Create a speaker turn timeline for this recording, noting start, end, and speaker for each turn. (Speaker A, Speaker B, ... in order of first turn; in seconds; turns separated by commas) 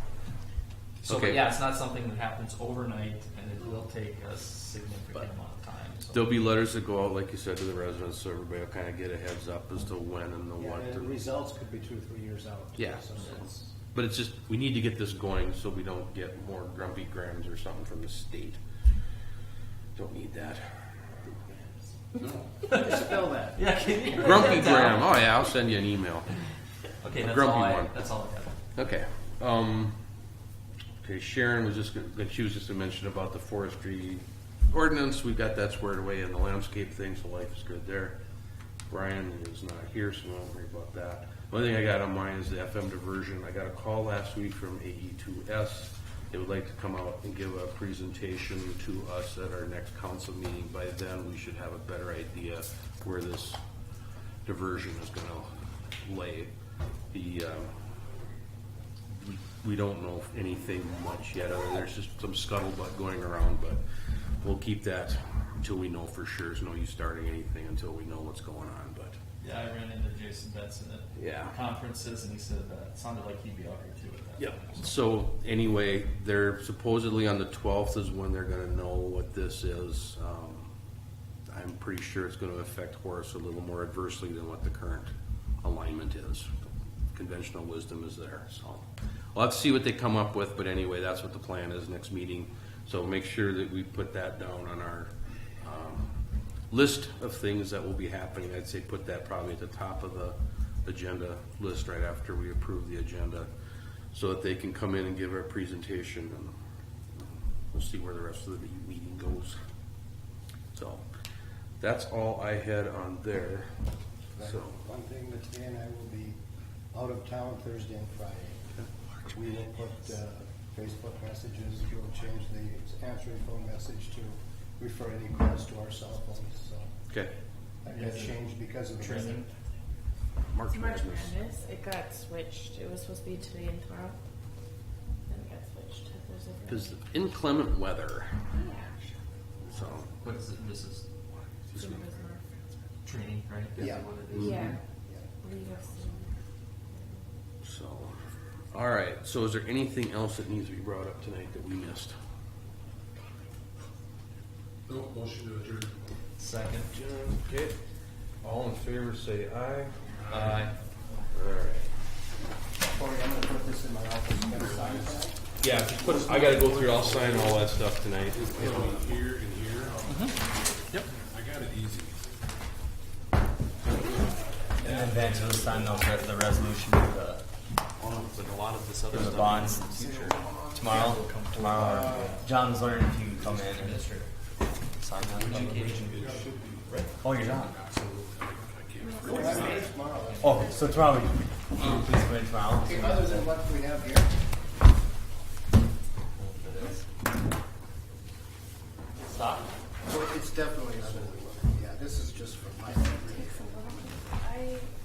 Speaker A: 1.0-6.3, Speaker B: 1.1-1.5, Speaker B: 6.1-11.2, Speaker C: 10.6-13.6, Speaker B: 12.8-18.6, Speaker A: 13.2-13.4, Speaker B: 19.9-22.3, Speaker C: 22.6-24.5, Speaker A: 22.7-25.1, Speaker B: 24.1-26.3, Speaker A: 27.0-28.6, Speaker B: 27.2-27.9, Speaker B: 28.7-29.9, Speaker B: 31.0-38.2, Speaker B: 38.9-53.6, Speaker B: 54.5-55.5, Speaker B: 56.0-56.5, Speaker B: 57.1-57.7, Speaker B: 59.1-63.8, Speaker B: 64.4-69.2, Speaker A: 69.4-74.9, Speaker B: 71.2-71.5, Speaker B: 74.4-80.7, Speaker B: 81.5-86.5, Speaker B: 87.1-96.2, Speaker B: 96.7-103.5, Speaker B: 104.1-106.5, Speaker B: 107.2-109.5, Speaker B: 110.7-111.0, Speaker B: 111.8-113.7, Speaker C: 114.3-116.4, Speaker B: 114.4-114.8, Speaker C: 116.9-118.6, Speaker C: 119.3-126.9, Speaker C: 127.8-129.5, Speaker A: 127.9-128.4, Speaker A: 129.0-129.5, Speaker B: 130.5-131.4, Speaker D: 130.7-134.1, Speaker D: 135.3-137.0, Speaker B: 136.7-138.5, Speaker D: 138.5-139.2, Speaker B: 139.7-140.1, Speaker A: 140.2-141.0, Speaker D: 141.7-142.5, Speaker E: 141.7-142.1, Speaker A: 143.0-144.7, Speaker C: 143.8-144.1, Speaker B: 143.8-144.7, Speaker D: 144.3-144.8, Speaker C: 144.7-145.3, Speaker D: 145.4-146.3, Speaker D: 146.9-147.2, Speaker B: 147.6-148.2, Speaker B: 148.7-152.2, Speaker E: 154.9-156.1, Speaker A: 156.4-156.9, Speaker B: 156.9-157.8, Speaker B: 158.4-160.7, Speaker A: 160.3-160.7, Speaker B: 161.3-161.9, Speaker C: 162.8-165.4, Speaker E: 164.5-165.2, Speaker B: 165.6-170.0, Speaker E: 165.8-167.8, Speaker E: 168.3-170.3, Speaker A: 170.1-170.3, Speaker E: 171.1-172.3, Speaker A: 174.8-175.6, Speaker F: 174.8-177.4, Speaker E: 174.9-175.9, Speaker B: 178.0-180.8, Speaker A: 178.0-182.5, Speaker F: 179.1-180.2, Speaker C: 179.8-180.3, Speaker F: 180.7-184.0, Speaker C: 181.8-182.4, Speaker A: 183.3-184.3, Speaker F: 184.9-186.5, Speaker A: 185.2-187.1, Speaker E: 185.5-189.8, Speaker F: 187.2-187.8, Speaker B: 188.7-189.5, Speaker D: 189.0-189.8, Speaker C: 189.2-191.1, Speaker A: 190.0-190.9, Speaker F: 190.4-193.6, Speaker C: 192.8-194.3, Speaker F: 196.4-197.0, Speaker A: 199.3-199.7, Speaker C: 200.0-203.8, Speaker D: 202.9-204.9